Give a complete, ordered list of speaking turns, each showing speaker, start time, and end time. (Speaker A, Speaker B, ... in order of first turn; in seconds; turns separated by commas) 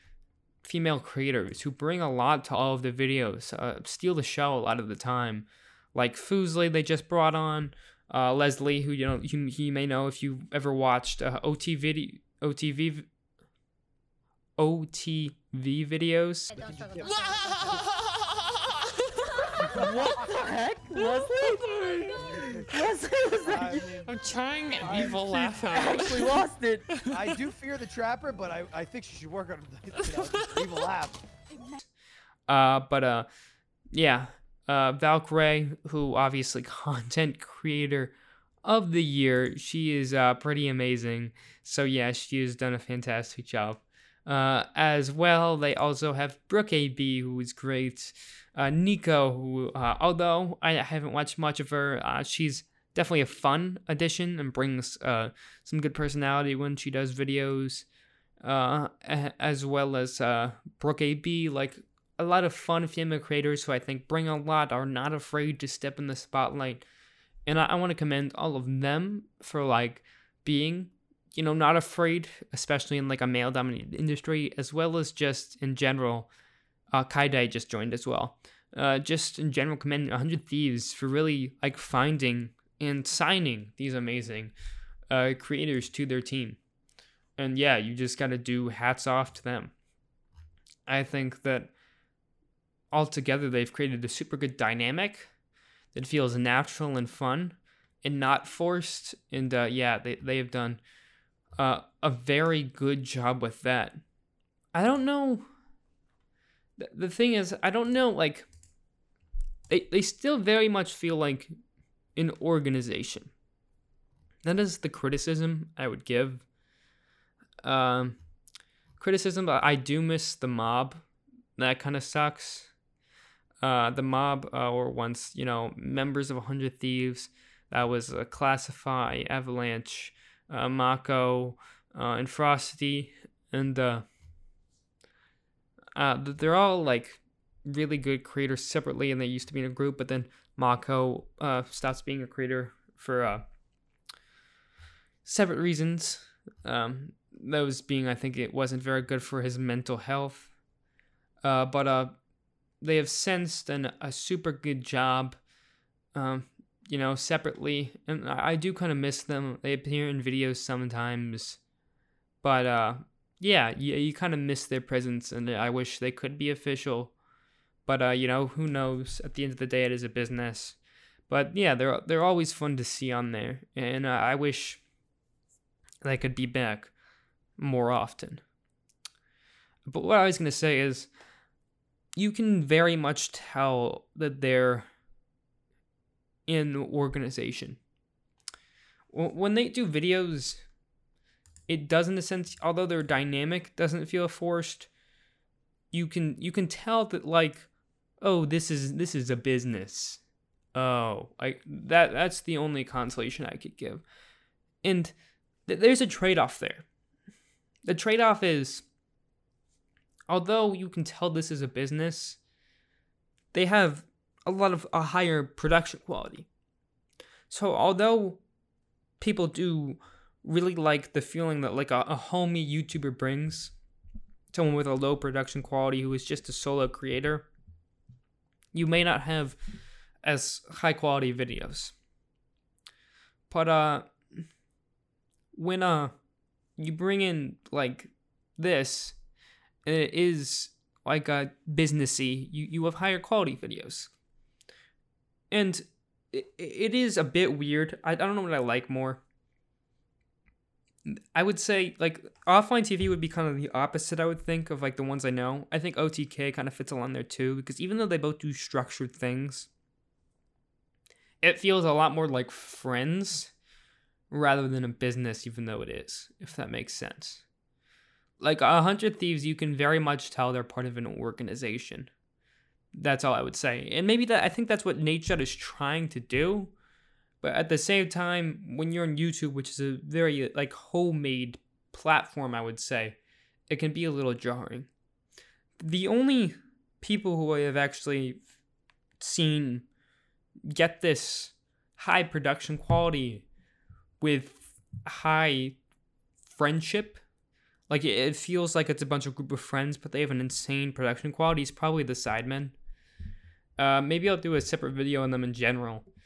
Speaker A: 0.6-13.1, Speaker A: 14.6-16.6, Speaker B: 16.5-17.2, Speaker C: 19.7-21.6, Speaker D: 21.6-21.9, Speaker C: 22.4-24.1, Speaker B: 23.4-24.1, Speaker D: 24.1-26.3, Speaker C: 24.8-26.8, Speaker B: 24.9-25.4, Speaker D: 27.0-27.2, Speaker B: 27.1-31.2, Speaker D: 30.0-30.6, Speaker A: 32.5-33.3, Speaker A: 33.9-57.9, Speaker A: 58.4-66.8, Speaker A: 67.5-76.3, Speaker A: 76.9-84.5, Speaker A: 85.1-86.6, Speaker A: 87.4-89.7, Speaker A: 90.9-91.7, Speaker A: 92.9-95.3, Speaker A: 95.9-100.8, Speaker A: 101.6-104.0, Speaker A: 104.7-105.5, Speaker A: 106.8-108.5, Speaker A: 109.7-111.5, Speaker A: 112.1-113.3, Speaker A: 114.4-116.4, Speaker A: 117.6-118.2, Speaker A: 119.0-121.0, Speaker A: 121.6-122.7, Speaker A: 123.6-134.0, Speaker A: 135.9-143.4, Speaker A: 145.2-150.5, Speaker A: 151.4-152.2, Speaker A: 152.8-155.4, Speaker A: 156.1-161.6, Speaker A: 162.4-167.1, Speaker A: 167.8-170.8, Speaker A: 171.3-174.8, Speaker A: 176.0-176.9, Speaker A: 177.6-178.4, Speaker A: 179.9-181.1, Speaker A: 182.2-184.9, Speaker A: 186.5-187.8, Speaker A: 189.1-190.6, Speaker A: 191.7-194.9, Speaker A: 195.9-197.7, Speaker A: 198.2-200.2, Speaker A: 200.7-204.0, Speaker A: 204.8-205.1, Speaker A: 205.7-206.8, Speaker A: 207.8-208.8, Speaker A: 210.3-212.4, Speaker A: 213.5-216.5, Speaker A: 217.5-218.4, Speaker A: 219.2-223.7, Speaker A: 224.5-227.5, Speaker A: 228.7-229.6, Speaker A: 230.2-231.9, Speaker A: 233.5-234.4, Speaker A: 235.5-236.1, Speaker A: 236.8-239.2, Speaker A: 239.8-244.1, Speaker A: 245.5-249.2, Speaker A: 251.1-259.7, Speaker A: 261.4-263.5, Speaker A: 264.3-267.4, Speaker A: 268.4-272.1, Speaker A: 272.9-276.7, Speaker A: 277.4-283.2, Speaker A: 283.7-284.9, Speaker A: 285.8-288.4, Speaker A: 289.2-289.9, Speaker A: 290.7-293.4, Speaker A: 294.2-295.8, Speaker A: 296.5-297.2, Speaker A: 297.9-302.7, Speaker A: 303.8-306.1